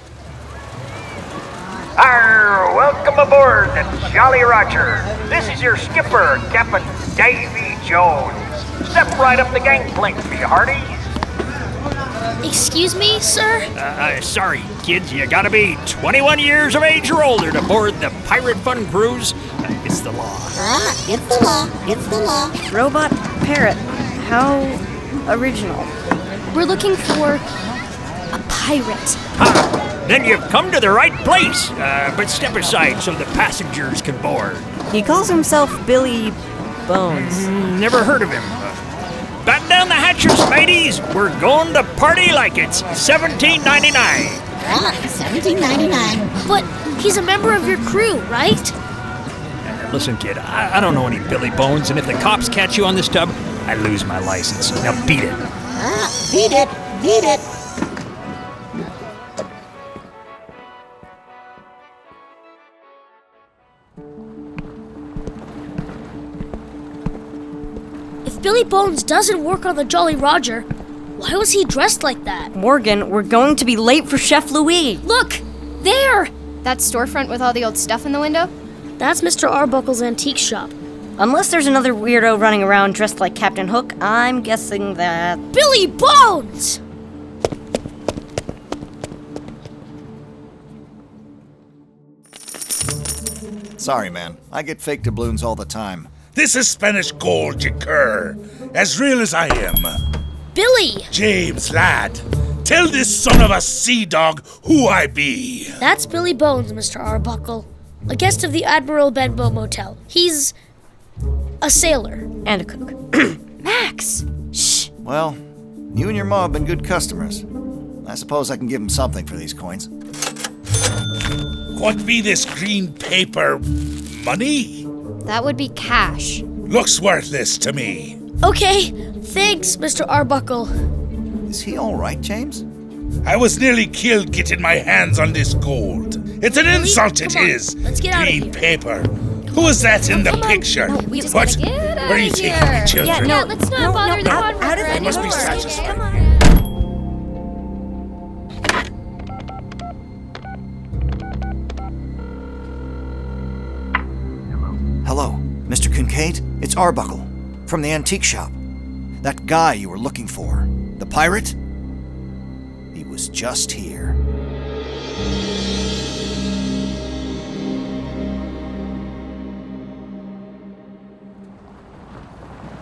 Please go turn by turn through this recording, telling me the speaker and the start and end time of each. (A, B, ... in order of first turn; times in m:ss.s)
0:02.0-0:10.9 A
0:12.4-0:13.7 B
0:13.8-0:22.5 A
0:20.8-0:21.7 C
0:22.7-0:25.9 D
0:26.5-0:27.5 E
0:28.3-0:29.2 E
0:29.4-0:34.7 A
0:34.9-0:37.5 D
0:37.2-0:38.7 A
0:39.4-0:44.4 A
0:44.6-0:46.3 C
0:46.4-0:48.8 B
0:49.7-0:55.4 A
0:55.8-0:57.4 C
1:08.2-1:12.5 B
1:12.5-1:15.0 D
1:15.0-1:18.5 E
1:19.0-1:20.8 B
1:21.2-1:25.4 D
1:25.5-1:26.8 B
1:33.8-1:36.2 F
1:36.3-1:40.0 G
1:40.6-1:41.1 B
1:41.1-1:45.8 G
1:45.8-1:50.5 B
1:51.6-1:52.3 B
1:52.4-1:53.4 D
1:53.6-1:54.9 E
1:55.0-1:55.4 F
1:55.9-1:57.4 F
1:58.0-1:59.9 F
2:01.7-2:04.9 G
2:05.2-2:06.4 E
2:06.7-2:08.2 G
2:08.4-2:10.7 B
2:11.5-2:12.6 F
2:13.2-2:23.4 G
2:16.5-2:18.6 B
2:20.1-2:26.2 E
2:21.0-2:21.5 B
2:23.0-2:26.2 D
2:24.8-2:26.0 G
2:35.0-2:38.6 F
2:39.2-2:41.6 F
2:42.9-2:44.2 F